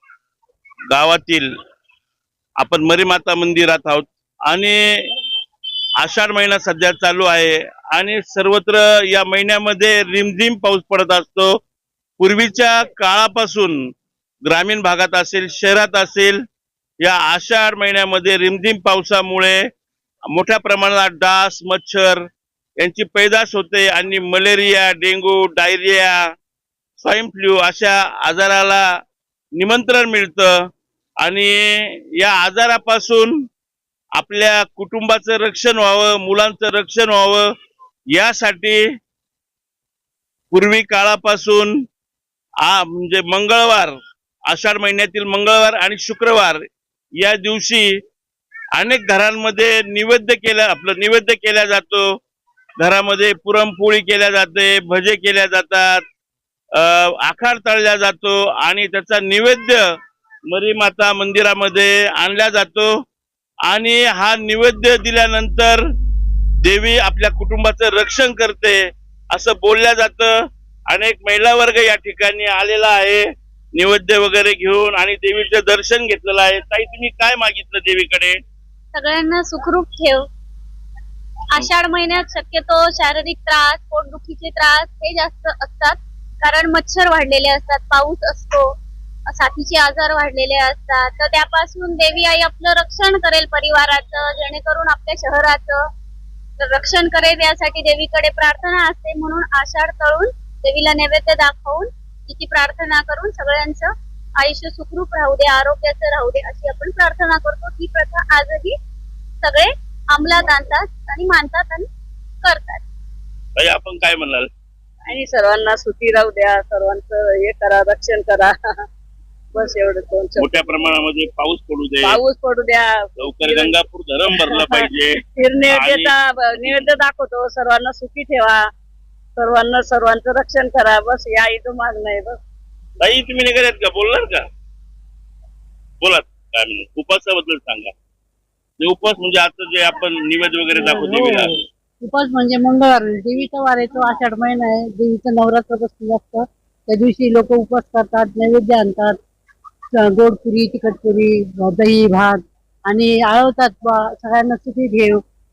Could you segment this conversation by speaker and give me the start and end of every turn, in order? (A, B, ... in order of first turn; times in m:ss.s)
0:00.9-0:01.5 A
0:02.6-0:04.8 A
0:06.0-0:11.6 A
0:12.2-0:13.8 A
0:14.5-0:16.4 A
0:17.0-0:19.6 A
0:20.3-0:22.2 A
0:22.8-0:26.2 A
0:27.0-0:28.8 A
0:29.6-0:30.5 A
0:31.2-0:33.3 A
0:34.2-0:37.4 A
0:38.1-0:38.8 A
0:40.5-0:41.7 A
0:42.6-0:43.9 A
0:44.5-0:46.6 A
0:47.2-0:47.9 A
0:48.8-0:52.0 A
0:52.8-0:56.0 A
0:56.8-0:59.8 A
1:00.5-1:02.9 A
1:03.7-1:05.8 A
1:06.6-1:08.8 A
1:09.3-1:10.3 A
1:10.9-1:18.4 A
1:19.0-1:20.2 B
1:21.5-1:28.7 B
1:29.3-1:35.8 B
1:36.6-1:48.7 B
1:49.4-1:51.9 B
1:52.4-1:52.8 B
1:53.6-1:54.5 A
1:55.1-1:58.6 C
1:59.6-2:00.5 C
2:00.4-2:02.2 A
2:02.0-2:02.9 C
2:03.2-2:06.8 A
2:03.4-2:03.7 C
2:05.4-2:08.6 C
2:09.4-2:12.4 C
2:13.0-2:14.4 A
2:16.0-2:17.9 A
2:18.8-2:21.6 A
2:20.8-2:21.5 D
2:22.0-2:29.2 D
2:30.0-2:35.2 D